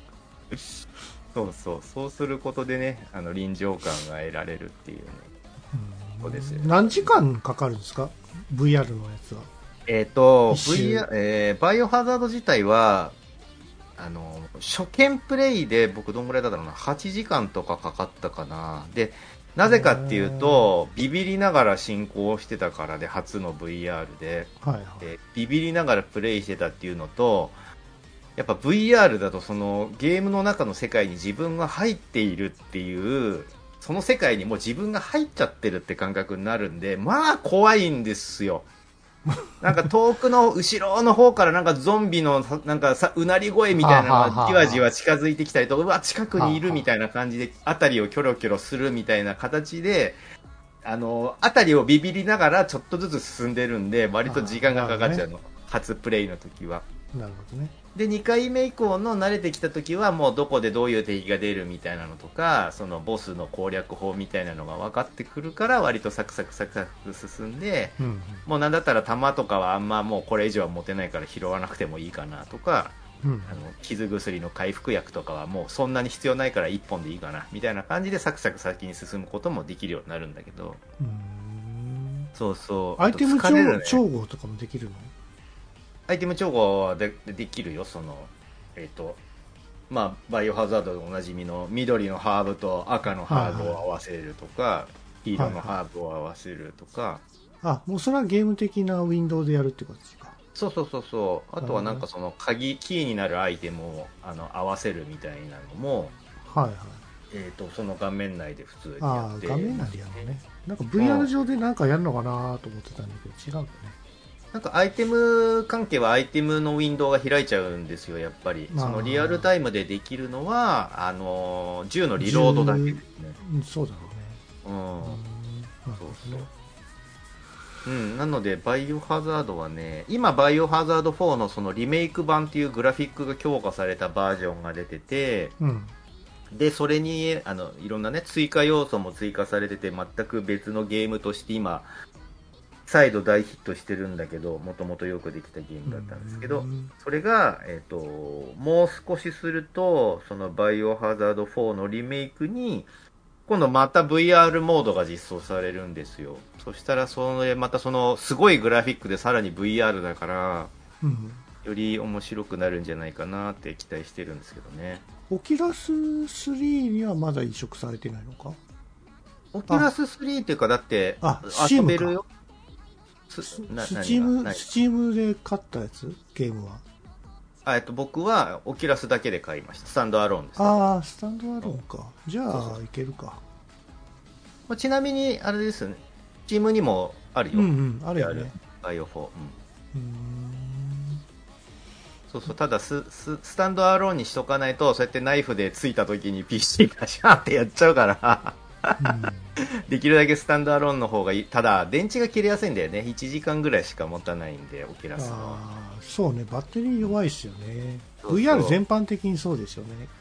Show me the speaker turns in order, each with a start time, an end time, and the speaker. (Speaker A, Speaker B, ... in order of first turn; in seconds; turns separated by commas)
Speaker A: 1.3-5.3, Speaker B: 5.7-9.5, Speaker A: 6.2-7.1, Speaker A: 9.9-13.2, Speaker B: 10.5-11.1, Speaker A: 14.0-27.6, Speaker B: 19.7-20.7, Speaker B: 24.6-25.1, Speaker A: 28.4-38.7, Speaker B: 39.3-39.9, Speaker A: 39.6-50.2, Speaker B: 43.8-44.9, Speaker B: 46.4-46.9, Speaker A: 50.8-56.9, Speaker B: 54.3-55.2, Speaker B: 57.1-57.7, Speaker A: 58.0-73.0, Speaker B: 68.0-68.5, Speaker B: 73.2-73.6, Speaker A: 73.5-80.8, Speaker B: 81.0-82.3, Speaker A: 82.3-84.0, Speaker B: 83.0-85.1, Speaker A: 86.1-89.2, Speaker A: 89.9-97.2, Speaker B: 93.3-93.8, Speaker B: 95.4-95.7, Speaker B: 97.6-100.4, Speaker A: 100.5-106.2, Speaker B: 101.6-102.0, Speaker B: 106.5-107.0, Speaker A: 107.3-109.9, Speaker B: 109.0-114.0, Speaker A: 111.0-111.3, Speaker A: 114.5-123.4, Speaker B: 118.7-119.5, Speaker B: 122.2-124.4, Speaker A: 124.6-125.2, Speaker B: 125.0-126.5, Speaker A: 126.0-126.5, Speaker A: 127.8-135.6, Speaker B: 135.6-135.9, Speaker A: 136.5-141.9, Speaker A: 142.9-152.9, Speaker B: 145.9-146.9, Speaker A: 153.5-160.7, Speaker B: 161.0-161.4, Speaker A: 161.6-165.1, Speaker B: 165.3-168.6, Speaker A: 169.5-172.3, Speaker B: 171.2-172.2, Speaker A: 173.3-174.7, Speaker B: 173.5-176.8, Speaker A: 177.7-180.9, Speaker B: 180.6-183.4, Speaker A: 182.5-182.8, Speaker A: 184.7-189.6, Speaker B: 187.5-188.5, Speaker B: 189.9-191.2, Speaker A: 192.3-199.2, Speaker B: 199.0-199.6, Speaker A: 199.8-205.6, Speaker B: 205.2-210.1, Speaker A: 208.2-208.8